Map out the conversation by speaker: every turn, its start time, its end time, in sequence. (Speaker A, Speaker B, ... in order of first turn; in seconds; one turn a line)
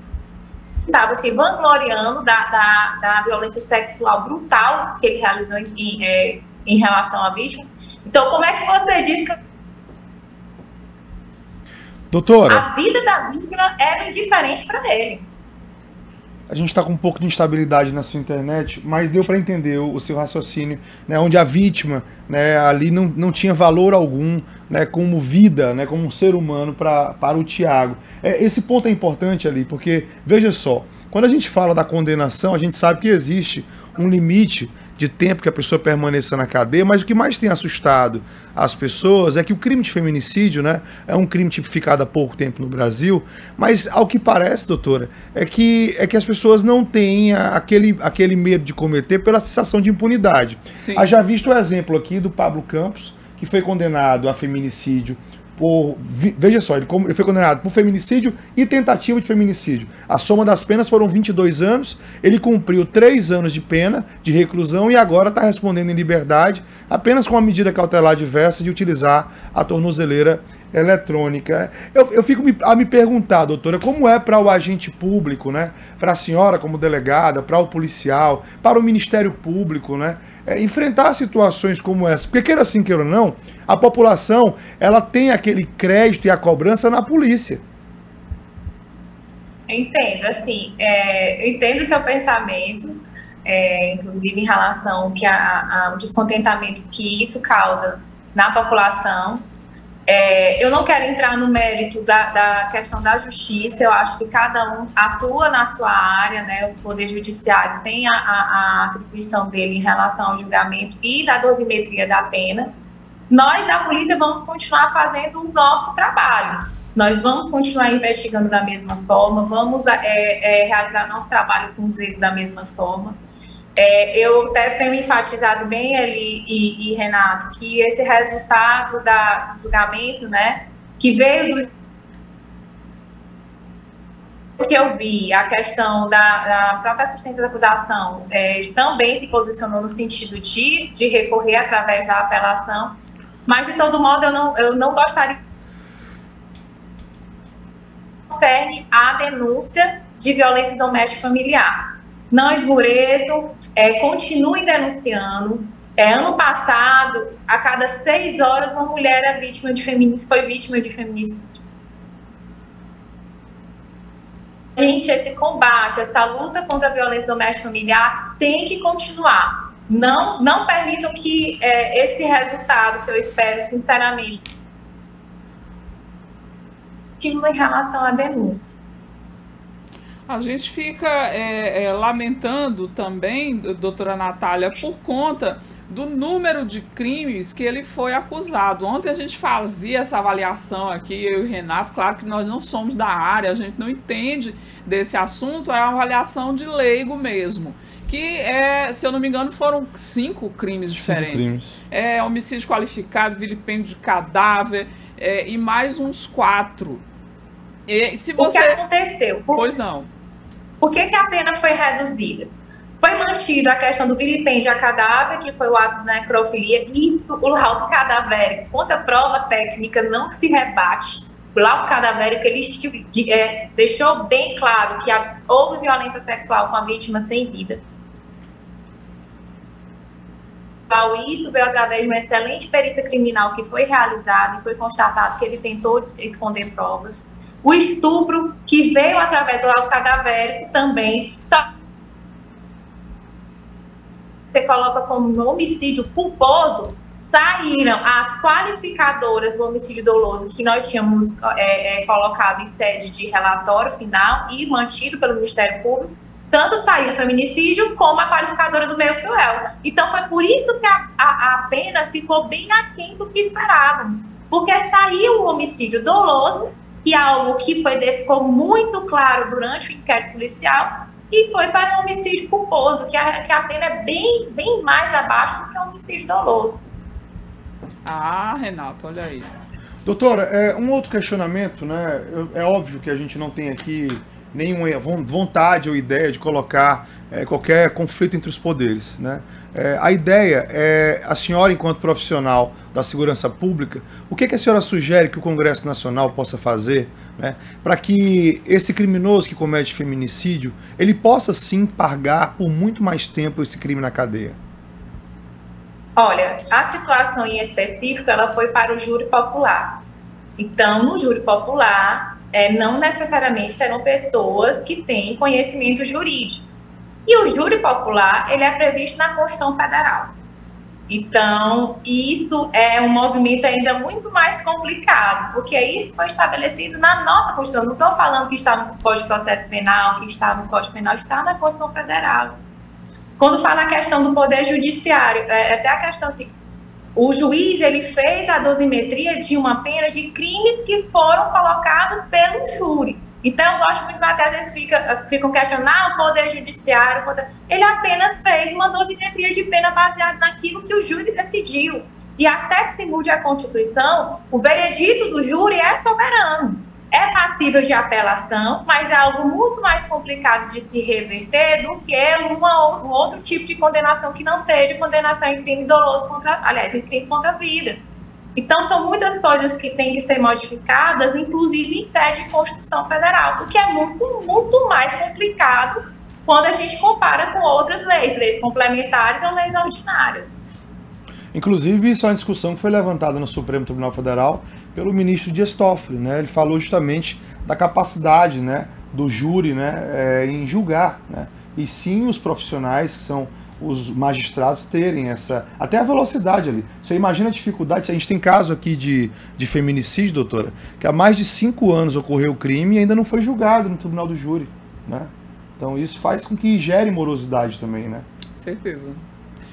Speaker A: 0.9-9.3
Speaker B: 12.1-12.6
Speaker A: 12.5-15.3
Speaker B: 16.5-87.6
Speaker C: 50.8-51.1
Speaker A: 89.7-99.4
Speaker A: 100.1-112.7
Speaker A: 113.3-123.2
Speaker A: 123.8-131.7
Speaker A: 134.6-142.9
Speaker A: 143.4-145.4
Speaker A: 148.3-151.7
Speaker A: 152.3-161.5
Speaker A: 164.8-174.4
Speaker A: 177.2-178.8
Speaker C: 180.3-207.0
Speaker B: 200.9-201.8
Speaker C: 207.9-208.8
Speaker A: 208.4-209.7
Speaker C: 209.5-210.1
Speaker A: 210.8-227.8
Speaker A: 230.9-241.6
Speaker A: 244.5-276.8
Speaker C: 278.0-279.5
Speaker B: 280.0-304.6
Speaker A: 306.1-310.0
Speaker A: 310.6-316.6
Speaker A: 317.2-320.3
Speaker A: 321.1-332.6
Speaker A: 333.4-336.5
Speaker A: 337.1-368.0
Speaker A: 368.6-380.6
Speaker B: 381.5-408.2
Speaker C: 408.6-409.2